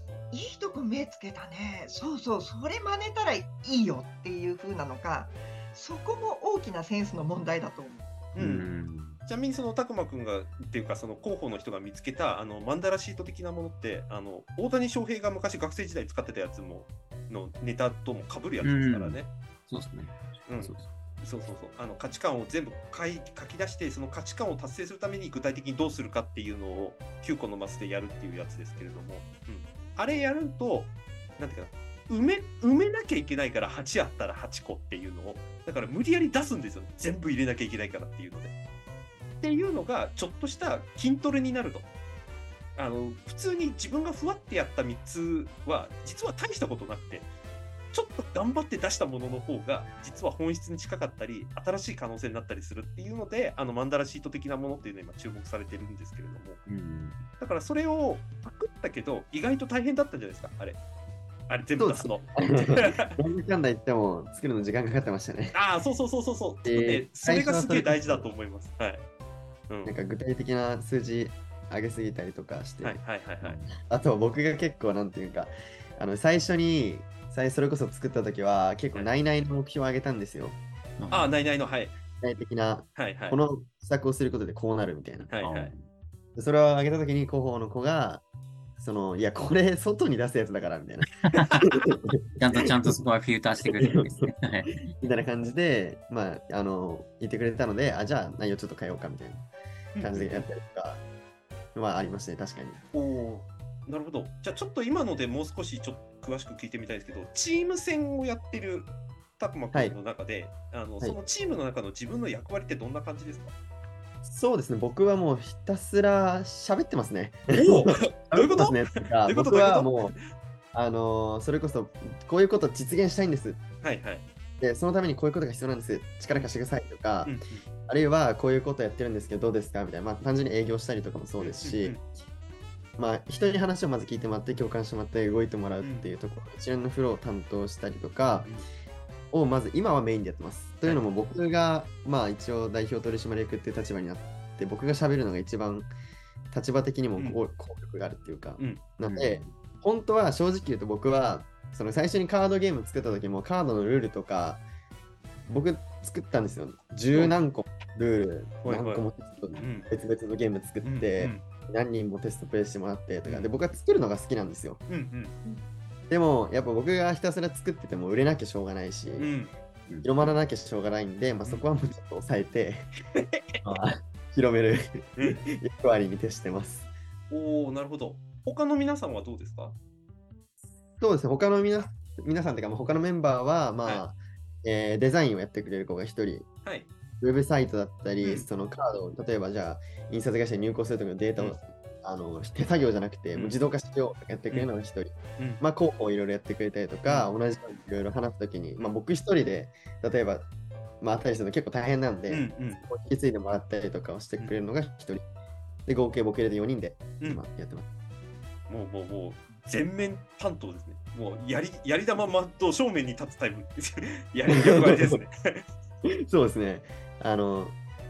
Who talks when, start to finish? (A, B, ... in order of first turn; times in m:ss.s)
0:00.3-0:08.1 A
0:08.3-0:08.7 B
0:08.4-0:09.2 C
0:09.2-0:19.3 B
0:18.6-0:20.8 C
0:20.5-0:38.5 B
0:39.4-0:41.9 B
0:42.8-0:47.3 B
0:47.9-0:56.6 B
0:56.6-0:57.2 C
0:57.4-1:00.8 B
1:01.5-1:03.2 B
1:01.8-1:05.6 D
1:05.5-1:09.0 B
1:06.6-1:08.3 D
1:09.7-1:09.9 B
1:09.8-1:13.0 D
1:12.8-1:13.6 B
1:13.9-1:20.6 D
1:21.0-1:21.3 C
1:21.1-1:21.9 B
1:22.1-1:25.3 D
1:23.0-1:23.4 B
1:25.3-1:25.7 B
1:25.4-1:25.8 C
1:26.4-1:28.2 D
1:28.8-1:32.9 D
1:31.3-1:31.7 C
1:32.4-1:34.9 C
1:33.7-1:34.3 D
1:34.8-1:39.4 D
1:39.9-1:40.2 B
1:40.0-1:41.0 D
1:41.7-1:42.8 D
1:42.9-1:53.5 B
1:54.2-2:00.1 D
1:57.6-2:00.2 B
2:00.7-2:03.6 D
2:03.8-2:04.2 B
2:04.6-2:07.4 D
2:07.2-2:07.6 B
2:07.9-2:12.0 D
2:11.4-2:12.0 B
2:13.0-2:18.5 D
2:15.8-2:16.1 B
2:19.3-2:25.9 D
2:26.5-2:34.6 D
2:27.2-2:27.4 B
2:29.1-2:29.5 C
2:35.5-2:44.8 D
2:38.6-2:39.9 B
2:40.8-2:41.4 B
2:43.2-2:43.5 B
2:44.9-2:45.4 B
2:46.1-2:49.3 D
2:49.2-2:49.5 B
2:50.0-2:52.9 D
2:53.1-2:53.6 B
2:53.6-2:56.9 D
2:57.3-2:59.8 B
3:01.0-3:06.5 D
3:06.6-3:06.9 B
3:07.2-3:20.5 D
3:13.3-3:13.6 B
3:17.0-3:17.3 B
3:21.0-3:25.2 D
3:22.3-3:22.8 B
3:25.8-3:27.8 D
3:28.7-3:35.6 B
3:34.5-3:35.2 D
3:36.3-3:37.8 D